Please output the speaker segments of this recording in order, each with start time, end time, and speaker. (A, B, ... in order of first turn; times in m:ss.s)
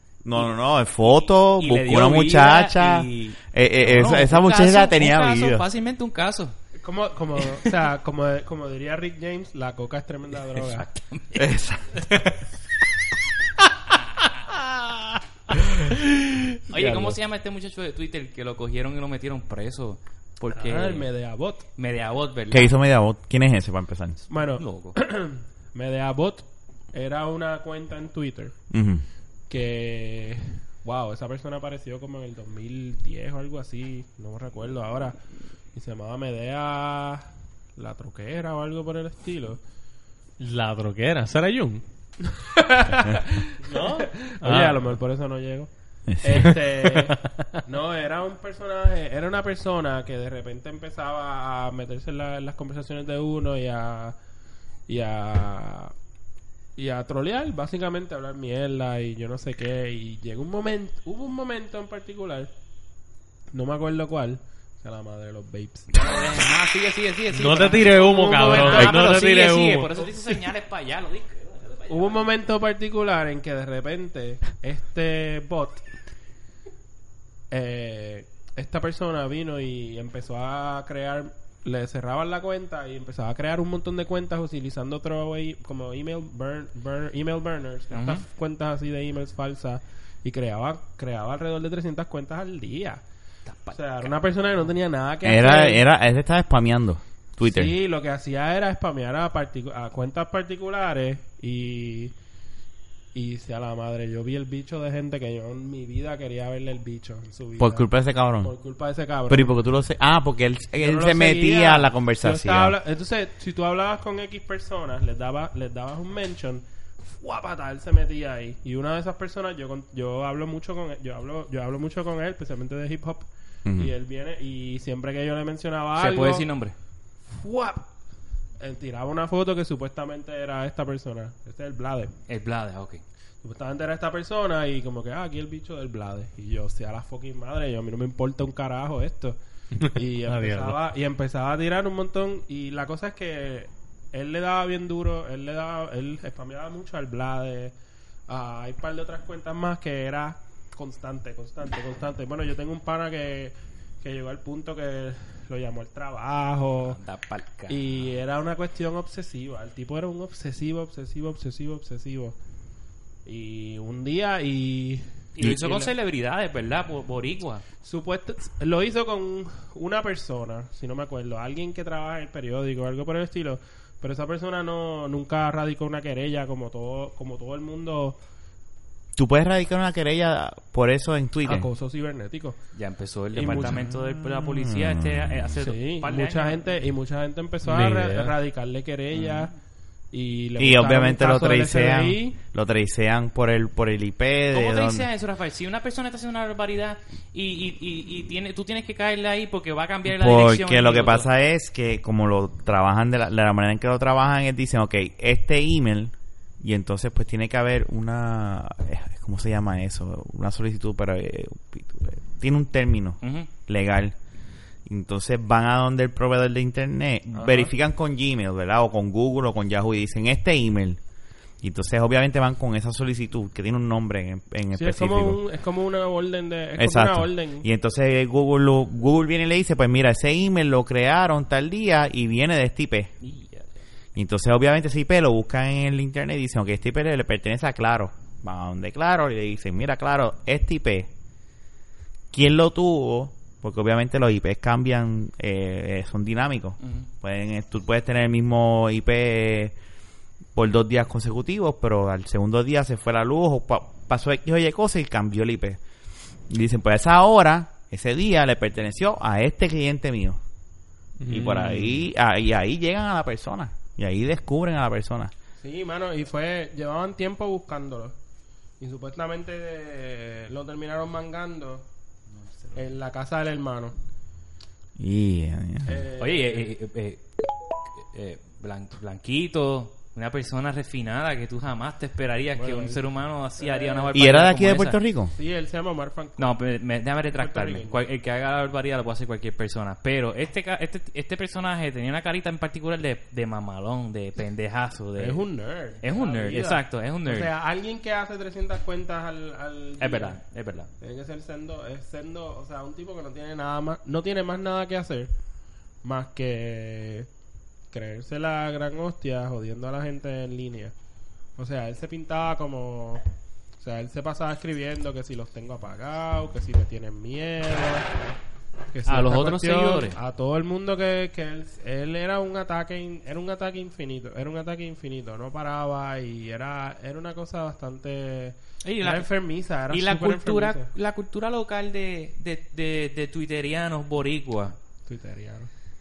0:00.2-0:05.6 A
0:01.0-0:06.5 B
0:06.8-0:10.9 C
0:10.6-0:11.4 B
0:11.3-0:12.2 A
0:16.7-0:21.1 B
0:16.7-0:17.2 C
0:20.5-0:21.6 C
0:21.8-0:22.7 B
0:22.5-0:24.2 A
0:24.3-0:28.6 C
0:24.6-0:25.0 B
0:28.7-0:29.0 A
0:29.5-0:35.2 C
0:35.7-0:39.6 C
0:40.4-0:41.8 D
0:42.2-0:45.7 C
0:43.8-0:44.8 D
0:46.1-0:46.5 A
0:46.2-0:54.2 C
0:46.4-0:47.0 D
0:54.9-0:55.9 C
0:56.8-1:02.5 C
1:03.5-1:06.2 C
1:06.0-1:12.2 B
1:07.3-1:10.1 D
1:08.0-1:09.0 C
1:11.9-1:15.8 C
1:17.5-1:33.0 C
1:27.9-1:28.2 B
1:33.4-1:34.1 B
1:33.7-1:35.8 C
1:35.2-1:37.7 A
1:37.4-1:42.1 C
1:43.1-1:47.9 C
1:47.6-1:48.5 A
1:48.4-1:49.5 C
1:49.3-1:52.8 A
1:50.8-2:06.5 C
2:03.6-2:03.9 A
2:06.0-2:06.8 B
2:07.3-2:07.9 C
2:08.6-2:12.1 C
2:12.3-2:13.0 B
2:13.4-2:27.7 C
2:20.3-2:20.7 D
2:28.3-2:37.0 C
2:36.8-2:38.1 B
2:37.7-2:42.4 C
2:43.2-2:45.9 C
2:45.3-2:47.6 B
2:47.8-2:58.2 C
2:59.2-3:01.7 A
3:01.4-3:02.6 C
3:02.7-3:06.7 B
3:03.3-3:03.9 C
3:03.4-3:05.6 A
3:05.6-3:09.5 C
3:07.6-3:08.3 D
3:09.1-3:09.5 B
3:10.1-3:12.4 C
3:10.6-3:15.1 A
3:14.5-3:21.3 B
3:20.0-3:34.2 A
3:33.2-3:33.5 B
3:34.8-3:41.0 A
3:37.3-3:37.7 C
3:41.6-3:45.4 A
3:44.7-3:47.7 C
3:46.8-3:53.1 A
3:53.2-3:53.8 B
3:54.1-4:01.1 A
4:02.3-4:09.7 A
4:06.8-4:07.1 B
4:10.5-4:15.8 A
4:16.5-4:20.4 A
4:21.2-4:21.9 D
4:21.3-4:25.3 A
4:25.6-4:28.1 C
4:28.8-4:31.8 C
4:32.7-4:33.9 C
4:35.0-4:36.0 A
4:35.8-4:36.7 C
4:36.2-4:37.3 B
4:37.9-4:45.0 B
4:42.6-4:43.0 C
4:43.6-4:44.3 C
4:44.1-4:45.3 A
4:45.3-4:46.6 C
4:46.4-4:55.4 B
4:47.3-4:48.0 C
4:55.2-5:00.4 C
4:56.0-4:57.5 B
5:00.0-5:00.9 B
5:01.0-5:05.3 C
5:06.0-5:07.3 C
5:07.9-5:10.9 C
5:11.6-5:13.2 C
5:13.8-5:18.1 C
5:18.9-5:30.9 C
5:19.0-5:20.2 B
5:28.8-5:29.3 B
5:29.9-5:34.8 B
5:35.0-5:35.7 C